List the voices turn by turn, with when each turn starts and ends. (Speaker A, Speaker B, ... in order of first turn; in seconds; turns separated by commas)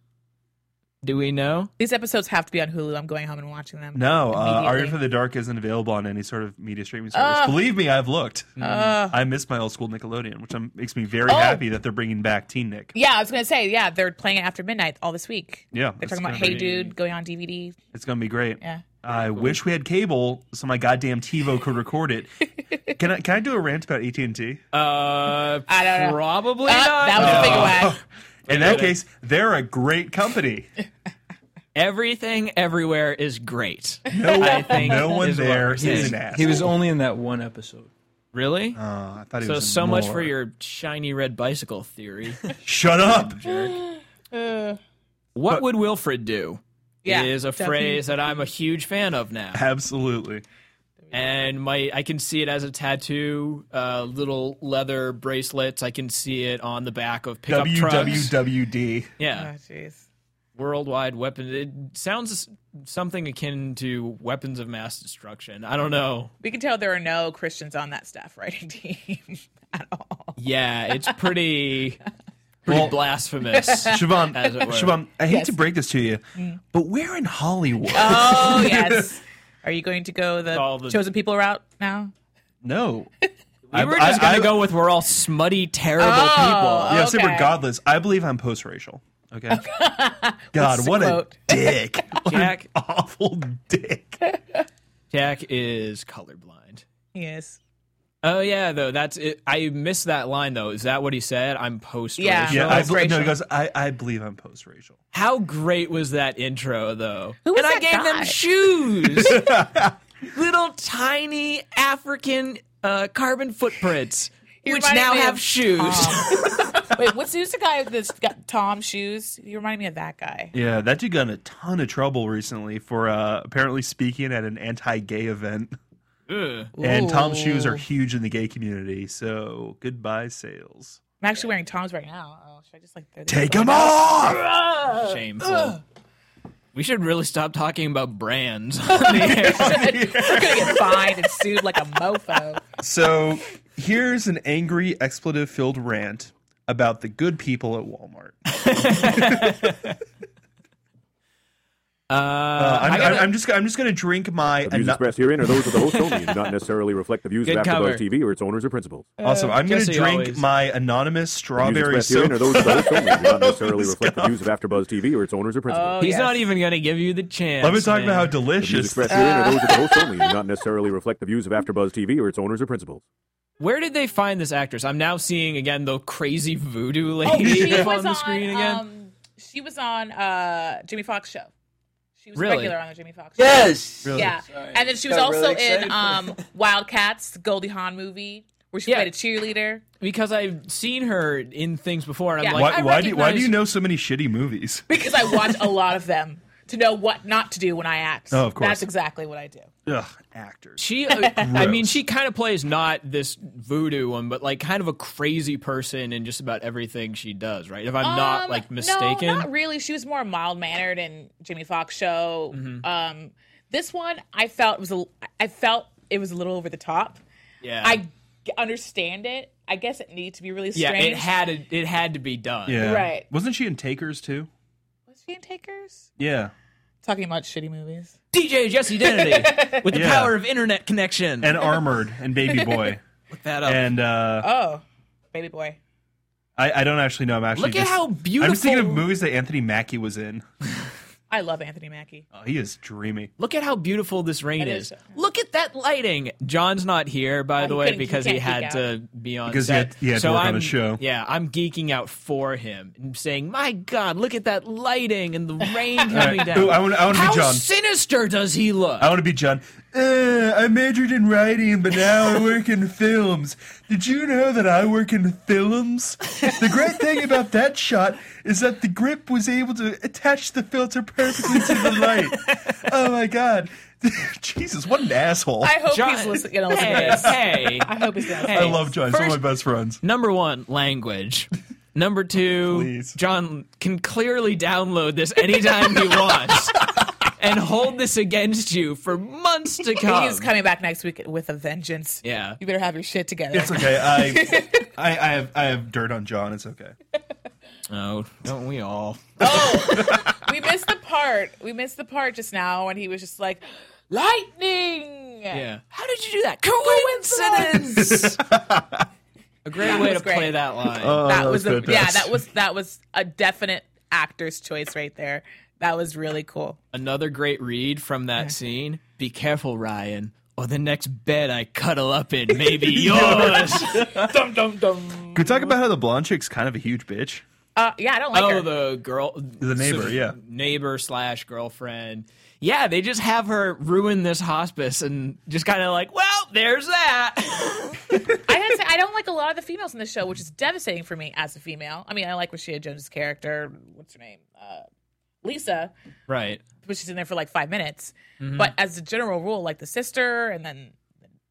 Speaker A: 1.0-1.7, Speaker B: 1.8-5.0, Speaker C: 3.9-12.9, Speaker B: 7.1-7.6, Speaker A: 8.6-9.0, Speaker B: 8.6-9.2, Speaker B: 11.3-11.6, Speaker B: 12.9-17.8, Speaker C: 15.7-16.7, Speaker A: 16.3-16.9, Speaker C: 17.9-22.3, Speaker C: 22.9-24.6, Speaker A: 24.7-27.9, Speaker B: 25.7-28.0, Speaker C: 27.1-30.7, Speaker A: 28.5-29.0, Speaker A: 31.7-36.2, Speaker C: 34.1-36.7, Speaker B: 34.1-35.2, Speaker D: 35.8-37.9, Speaker A: 38.3-38.8, Speaker C: 38.7-40.3, Speaker A: 39.4-43.7, Speaker C: 42.6-43.5, Speaker B: 43.7-44.8, Speaker A: 45.3-49.6, Speaker B: 47.0-48.4, Speaker C: 49.5-50.4, Speaker B: 51.0-51.5, Speaker A: 51.1-58.3, Speaker C: 57.5-59.1, Speaker A: 59.2-59.5, Speaker B: 59.3-60.0, Speaker A: 60.5-66.3, Speaker B: 66.4-70.4, Speaker A: 70.4-72.0, Speaker A: 72.6-75.0, Speaker C: 72.7-73.0, Speaker B: 73.5-74.0, Speaker C: 73.8-79.1, Speaker B: 75.3-75.6, Speaker B: 76.3-76.6, Speaker B: 77.9-82.1, Speaker A: 80.5-81.0, Speaker C: 82.6-83.1, Speaker A: 83.7-87.0, Speaker C: 83.7-84.7, Speaker B: 86.0-87.5, Speaker C: 86.9-89.6, Speaker B: 89.5-92.2, Speaker C: 90.5-94.2, Speaker A: 92.3-92.7, Speaker B: 94.3-94.6, Speaker A: 95.1-96.8, Speaker B: 97.1-97.6, Speaker A: 98.2-103.0, Speaker B: 102.2-103.4, Speaker C: 102.5-105.0, Speaker A: 105.1-109.5, Speaker B: 107.4-108.3, Speaker C: 109.2-109.9, Speaker A: 110.3-116.5, Speaker B: 114.6-120.5, Speaker C: 120.5-125.8, Speaker A: 126.3-126.7, Speaker B: 126.8-127.8, Speaker C: 126.8-131.0, Speaker B: 131.2-135.7, Speaker C: 133.3-134.5, Speaker A: 134.9-135.8, Speaker A: 136.7-139.9, Speaker B: 138.9-142.7, Speaker C: 139.3-141.2, Speaker C: 142.8-149.7, Speaker A: 148.5-150.0, Speaker A: 152.1-153.3, Speaker C: 152.6-155.3, Speaker E: 154.6-159.1, Speaker A: 155.9-156.2, Speaker A: 157.4-158.0, Speaker B: 159.2-159.6, Speaker C: 159.2-164.5, Speaker A: 159.6-160.4, Speaker E: 161.6-166.1, Speaker B: 165.7-166.5, Speaker A: 166.0-168.4, Speaker C: 167.6-169.3, Speaker E: 168.6-173.0, Speaker B: 169.1-170.4, Speaker A: 173.6-178.8, Speaker B: 177.2-181.5, Speaker C: 177.3-177.9, Speaker B: 182.2-189.8, Speaker A: 182.3-182.8, Speaker D: 183.4-186.4, Speaker C: 184.0-184.3, Speaker A: 188.8-189.1, Speaker A: 190.0-193.5, Speaker B: 192.4-193.4, Speaker C: 192.5-194.9, Speaker B: 194.9-199.7, Speaker C: 198.3-198.9, Speaker C: 199.8-202.0, Speaker A: 200.8-209.5, Speaker B: 201.2-201.5, Speaker B: 208.0-217.2, Speaker A: 212.5-212.8, Speaker A: 217.6-218.0, Speaker B: 217.8-221.4, Speaker A: 220.7-222.9, Speaker C: 222.7-224.5, Speaker B: 222.8-223.3, Speaker B: 225.1-226.1, Speaker C: 226.2-226.5, Speaker B: 227.0-228.1, Speaker A: 228.3-231.6, Speaker B: 229.0-229.9, Speaker C: 229.9-230.4, Speaker C: 231.4-233.0, Speaker B: 232.5-232.9, Speaker A: 233.3-233.9, Speaker C: 233.6-234.5, Speaker B: 234.4-235.8, Speaker C: 236.6-240.4, Speaker A: 237.5-239.1, Speaker B: 241.3-242.2, Speaker C: 242.3-243.3, Speaker A: 243.4-259.1, Speaker B: 244.6-245.1, Speaker B: 247.6-248.8, Speaker C: 249.5-251.0, Speaker C: 256.1-257.7, Speaker C: 259.0-275.8, Speaker B: 275.6-278.9, Speaker A: 275.9-277.9, Speaker C: 276.8-277.3, Speaker A: 278.4-279.3, Speaker C: 278.4-280.0, Speaker A: 280.0-286.8, Speaker C: 282.7-283.2, Speaker A: 287.4-290.5, Speaker B: 290.0-294.9, Speaker A: 292.2-292.6, Speaker C: 293.5-296.9, Speaker A: 297.9-299.7, Speaker B: 299.4-305.6, Speaker A: 305.5-308.4, Speaker B: 306.8-308.1, Speaker C: 308.0-309.1, Speaker A: 309.6-311.2, Speaker B: 309.8-310.6, Speaker C: 311.0-312.4, Speaker B: 311.2-316.8, Speaker A: 316.9-324.1, Speaker C: 322.8-324.4, Speaker B: 324.0-325.7, Speaker C: 325.3-327.4, Speaker B: 327.8-328.7, Speaker A: 328.3-338.3, Speaker C: 329.6-330.4, Speaker B: 338.4-344.8, Speaker B: 345.4-345.9, Speaker A: 346.3-346.6, Speaker B: 346.8-351.0, Speaker A: 348.4-348.7